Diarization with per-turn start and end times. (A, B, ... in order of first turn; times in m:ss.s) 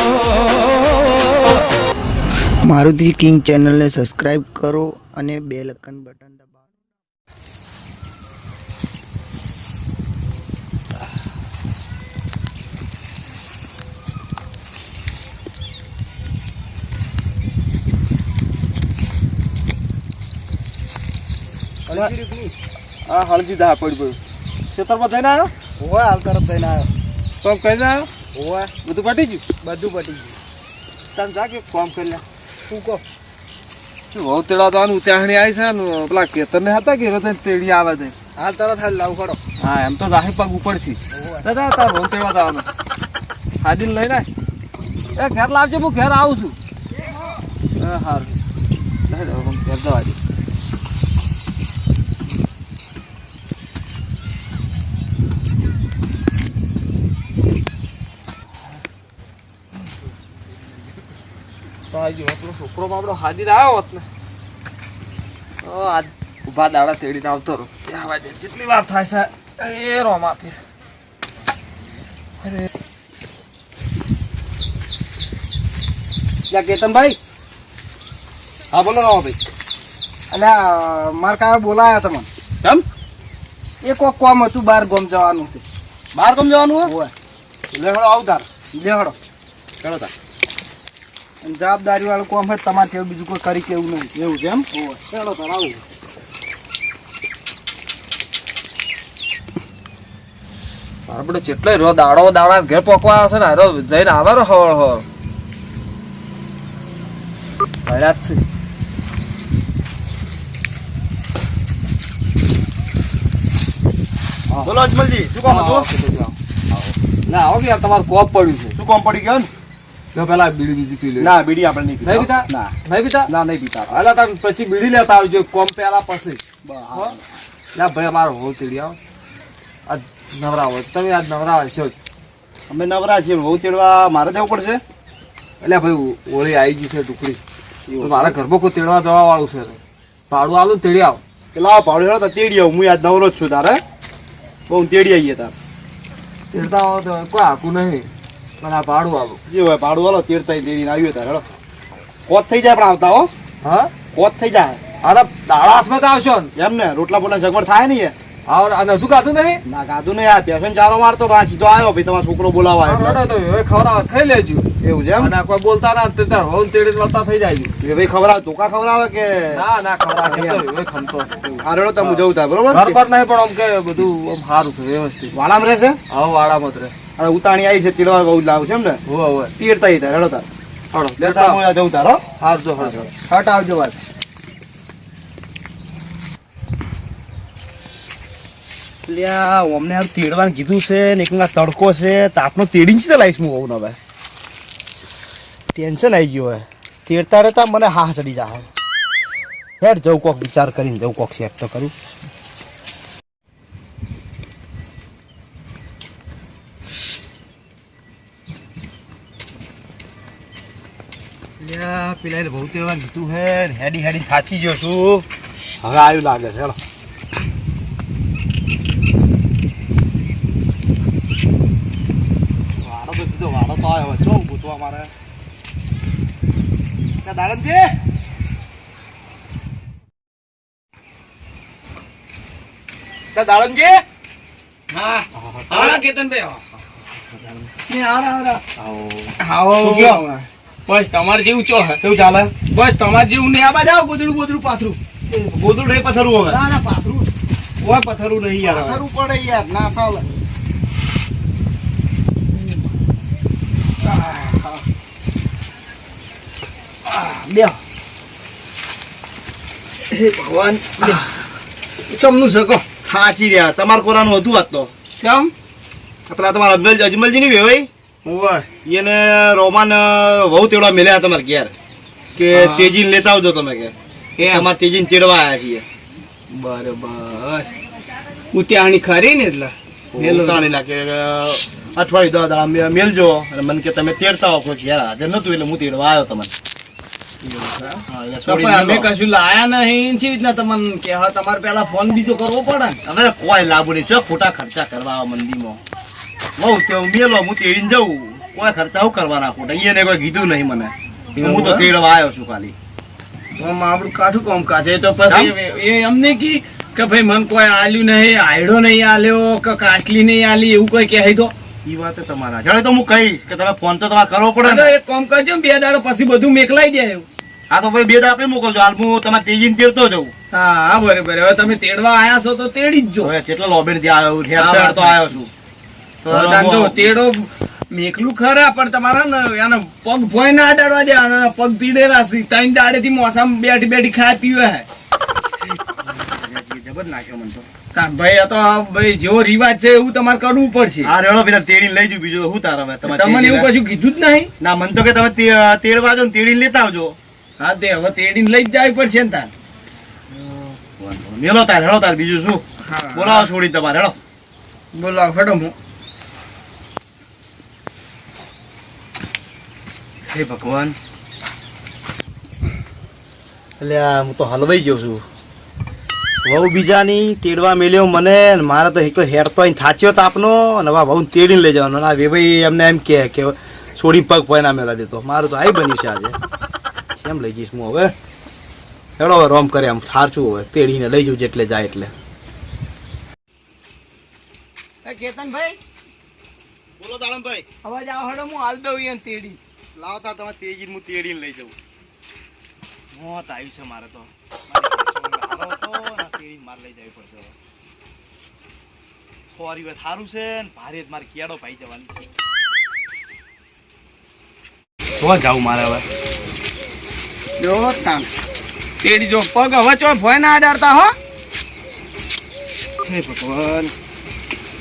0:02.6-0:06.6 A
0:21.9-0:22.5 B
0:23.1-0:24.2 C
0:24.7-0:25.5 C
0:25.8-0:26.9 A
0:27.4-0:28.1 C
0:28.8-0:29.4 C
0:29.6-0:30.4 A
0:31.1-0:32.2 C
0:32.7-0:33.0 A
0:34.1-0:38.2 C
0:38.4-0:39.4 A
0:39.6-0:42.7 C
0:41.1-0:41.4 A
0:43.6-0:44.3 C
0:45.2-0:46.6 C
0:47.8-0:48.4 C
0:49.1-0:50.2 C
1:01.9-1:04.1 C
1:05.6-1:10.6 C
1:12.4-1:12.7 C
1:16.5-1:17.2 A
1:18.7-1:19.5 B
1:20.3-1:22.3 A
1:23.8-1:25.6 A
1:26.1-1:26.9 B
1:26.9-1:27.1 A
1:27.7-1:28.5 B
1:28.7-1:29.1 A
1:29.8-1:30.1 B
1:31.4-1:34.1 A
1:34.1-1:34.7 B
1:34.7-1:35.8 A
1:41.1-1:45.0 C
1:47.8-1:48.4 C
1:54.6-1:55.9 B
1:55.4-1:56.4 C
1:57.3-1:58.8 C
1:58.8-1:59.5 B
2:00.1-2:01.3 C
2:01.2-2:02.8 B
2:02.0-2:03.3 C
2:03.3-2:04.0 B
2:03.9-2:06.4 C
2:06.6-2:07.2 B
2:07.8-2:09.0 C
2:09.9-2:12.0 C
2:12.7-2:14.8 B
2:15.6-2:17.4 C
2:17.9-2:18.4 B
2:18.0-2:21.2 C
2:21.5-2:23.8 B
2:24.7-2:25.5 B
2:26.5-2:28.1 C
2:28.6-2:29.4 C
2:29.5-2:31.4 B
2:32.3-2:33.3 B
2:33.6-2:33.9 C
2:34.1-2:34.8 B
2:35.0-2:36.5 C
2:36.6-2:38.2 B
2:38.5-2:39.6 C
2:39.6-2:43.2 B
2:42.8-2:44.7 C
2:44.8-2:45.4 B
2:45.2-2:47.7 C
2:47.8-2:49.6 B
2:49.5-2:51.4 C
2:50.2-2:50.6 B
2:51.4-2:53.0 B
2:52.0-2:55.3 C
2:55.3-2:56.0 B
2:56.1-2:56.9 C
2:57.2-2:59.0 B
2:59.1-2:59.5 C
2:59.6-3:00.5 B
3:00.9-3:01.6 C
3:01.2-3:02.2 B
3:02.4-3:03.1 C
3:02.8-3:03.0 B
3:03.3-3:04.0 A
3:09.1-3:14.0 B
3:15.7-3:18.7 B
3:19.8-3:21.9 B
3:31.6-3:35.3 B
3:35.8-3:36.8 B
3:42.8-3:45.1 B
3:47.2-3:48.0 B
3:53.3-3:54.0 B
3:54.9-3:56.6 D
3:55.3-3:56.0 B
3:57.9-3:58.6 D
3:58.7-4:00.2 B
3:59.4-4:02.0 D
4:02.0-4:02.5 B
4:02.7-4:05.0 D
4:05.3-4:06.6 B
4:06.5-4:07.3 A
4:07.8-4:09.0 B
4:08.6-4:10.3 A
4:14.1-4:14.7 A
4:17.1-4:17.8 A
4:20.1-4:21.2 D
4:22.1-4:22.8 D
4:22.1-4:22.6 A
4:23.0-4:24.9 B
4:25.2-4:25.5 D
4:26.3-4:27.9 B
4:28.2-4:28.7 D
4:28.8-4:31.7 B
4:32.4-4:32.9 D
4:32.5-4:35.9 B
4:34.4-4:34.7 D
4:36.5-4:37.7 D
4:38.5-4:40.7 D
4:40.2-4:46.5 B
4:47.4-4:53.0 D
4:48.1-4:49.1 B
4:53.0-4:55.8 B
4:56.6-5:02.7 B
5:01.4-5:01.9 D
5:03.6-5:11.5 D
5:05.3-5:05.6 B
5:11.8-5:15.0 B
5:14.6-5:17.3 D
5:17.7-5:20.3 B
5:20.5-5:23.3 D
5:23.2-5:25.4 B
5:24.6-5:25.5 D
5:26.2-5:27.1 B
5:26.3-5:34.9 D
5:35.6-5:37.7 B
5:37.9-5:41.1 D
5:41.0-5:43.7 B
5:43.0-5:44.5 D
5:44.6-5:47.2 B
5:47.6-5:49.5 D
5:51.0-5:54.2 B
5:52.8-5:53.5 D
5:54.9-5:55.7 D
6:00.3-6:01.0 B
6:03.8-6:05.2 B
6:06.4-6:16.4 B
6:17.1-6:18.1 B
6:19.2-6:22.1 B
6:25.0-6:25.8 D
6:27.0-6:27.7 B
6:27.8-6:29.6 D
6:30.0-6:31.8 B
6:33.1-6:37.6 B
6:39.5-6:42.2 B
6:45.2-6:46.0 B
6:47.6-6:48.3 A
6:49.0-6:51.1 D
6:50.0-6:51.1 A
6:53.1-6:53.9 B